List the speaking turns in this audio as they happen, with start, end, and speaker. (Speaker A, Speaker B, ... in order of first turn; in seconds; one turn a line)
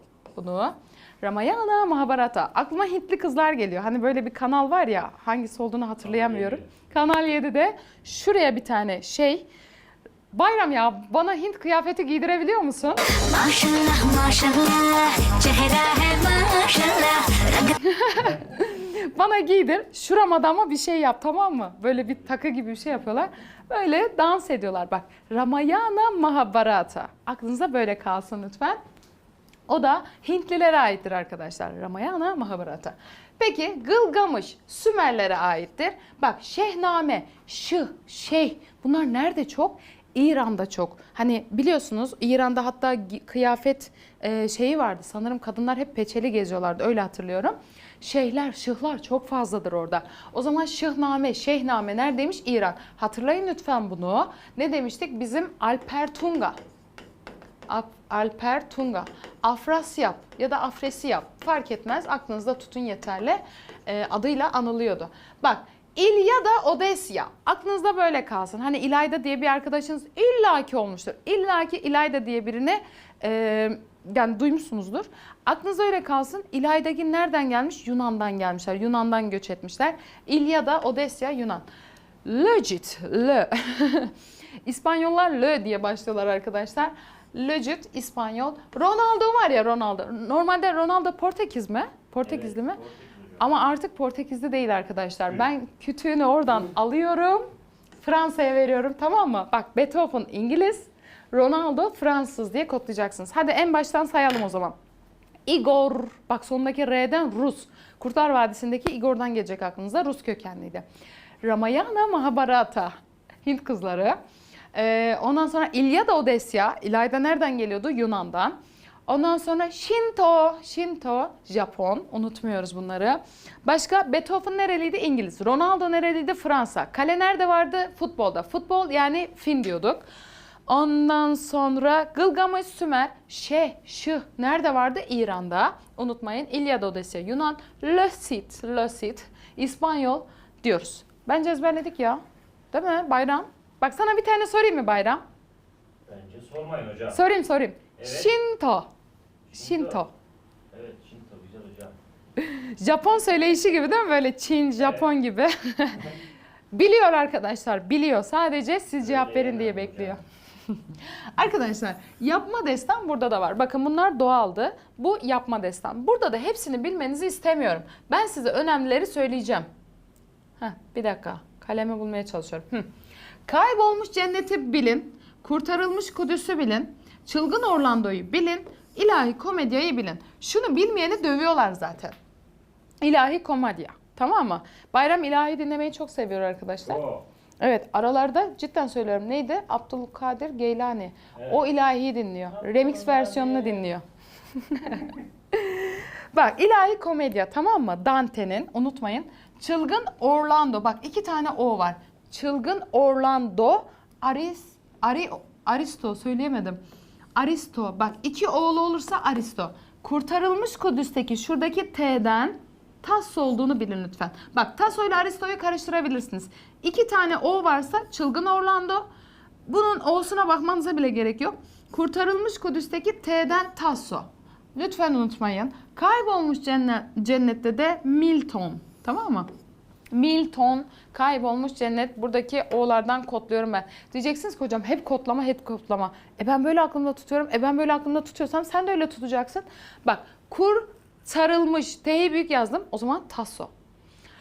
Speaker A: 0.3-9.5
Speaker B: 6.0-6.7
Speaker A: 10.3-13.0
Speaker C: 13.2-17.8
Speaker A: 17.9-28.8
Speaker A: 29.7-56.6
Speaker A: 57.7-81.7
Speaker A: 82.2-84.1
Speaker A: 84.7-92.8
Speaker B: 92.2-93.4
Speaker A: 93.4-97.5
Speaker A: 98.0-104.8
Speaker A: 105.5-110.8
Speaker A: 111.4-114.2
Speaker A: 114.7-118.6
Speaker A: 119.1-130.1
Speaker A: 130.7-142.2
Speaker A: 142.7-145.2
Speaker B: 146.1-147.2
Speaker A: 147.1-148.9
Speaker B: 148.0-148.3
Speaker B: 149.5-150.1
Speaker A: 149.6-150.1
Speaker B: 150.7-152.0
Speaker A: 152.4-156.1
Speaker B: 154.8-155.1
Speaker A: 156.7-160.2
Speaker B: 159.0-160.2
Speaker A: 161.4-169.7
Speaker A: 170.6-172.9
Speaker A: 173.5-182.2
Speaker A: 183.0-187.0
Speaker B: 186.9-187.3
Speaker A: 187.6-194.0
Speaker B: 191.4-191.6
Speaker B: 192.6-193.9
Speaker A: 194.6-206.8
Speaker A: 207.4-219.1
Speaker A: 219.7-229.5
Speaker A: 230.1-243.7